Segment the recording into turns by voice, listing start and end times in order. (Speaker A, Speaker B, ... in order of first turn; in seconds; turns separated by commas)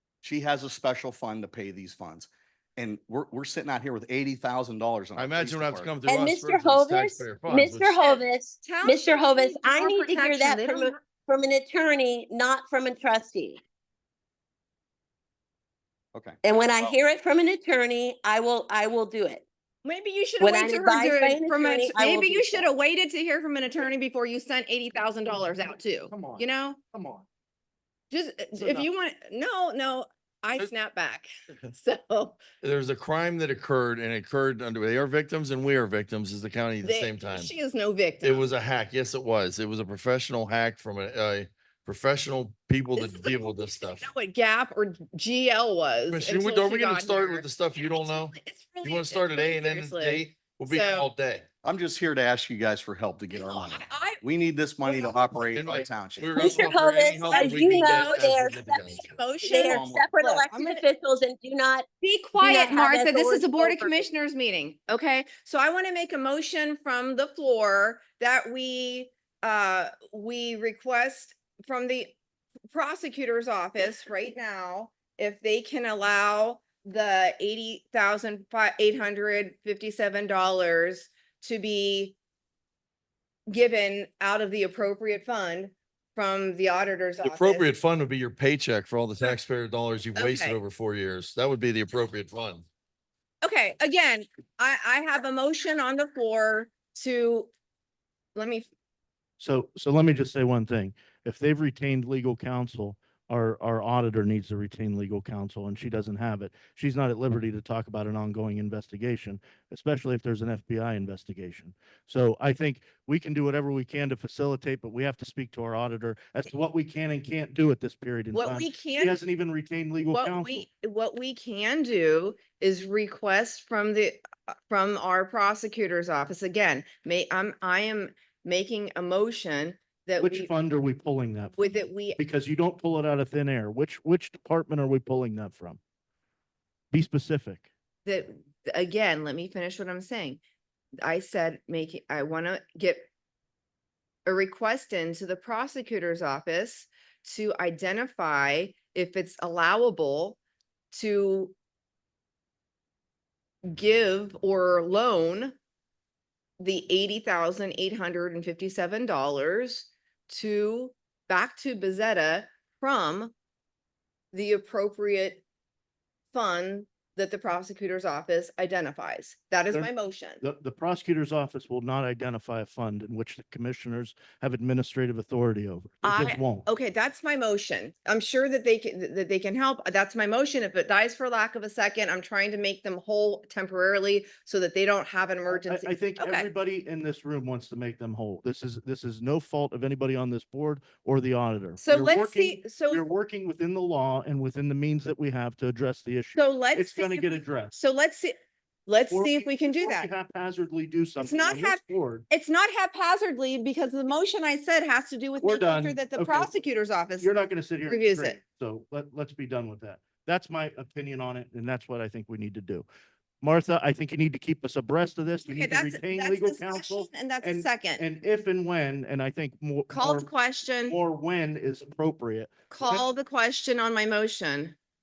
Speaker A: 0.2-5.9, Speaker B: 5.2-8.0, Speaker C: 6.0-13.6, Speaker D: 8.0-11.0, Speaker A: 16.1-16.9, Speaker C: 16.4-19.4, Speaker D: 19.8-26.8, Speaker C: 20.4-22.7, Speaker E: 26.1-27.2, Speaker D: 28.1-32.4, Speaker B: 32.6-37.5, Speaker D: 36.8-38.5, Speaker B: 38.2-44.0, Speaker D: 43.0-51.1, Speaker B: 46.1-51.5, Speaker A: 51.6-56.4, Speaker D: 53.3-54.2, Speaker D: 54.8-55.4, Speaker B: 55.5-59.0, Speaker C: 56.4-61.9, Speaker D: 57.3-58.3, Speaker D: 58.9-60.8, Speaker A: 59.7-60.1, Speaker D: 62.0-72.1, Speaker C: 62.4-64.1, Speaker D: 72.7-82.2, Speaker D: 83.5-87.7, Speaker B: 87.2-92.6, Speaker D: 90.1-90.6, Speaker D: 93.4-97.5, Speaker D: 98.3-98.7, Speaker E: 99.4-120.7, Speaker D: 118.3-119.2, Speaker D: 120.0-130.5, Speaker E: 130.2-135.8, Speaker D: 131.6-132.2, Speaker E: 136.9-137.7, Speaker D: 138.1-140.4, Speaker D: 141.0-143.1, Speaker D: 144.2-150.4, Speaker D: 150.9-151.5, Speaker D: 153.7-155.5, Speaker D: 156.6-163.3, Speaker D: 164.3-165.4, Speaker D: 166.3-170.4, Speaker E: 169.7-176.7, Speaker D: 176.0-186.5, Speaker E: 185.5-197.7, Speaker D: 191.8-193.0, Speaker D: 196.3-198.3, Speaker D: 198.9-200.1, Speaker E: 199.1-202.2, Speaker D: 201.2-207.3, Speaker E: 205.4-206.5, Speaker E: 207.2-212.8, Speaker D: 207.9-208.4, Speaker E: 213.4-220.3, Speaker D: 215.5-218.0, Speaker D: 219.9-221.0, Speaker E: 220.9-223.0, Speaker D: 222.7-224.7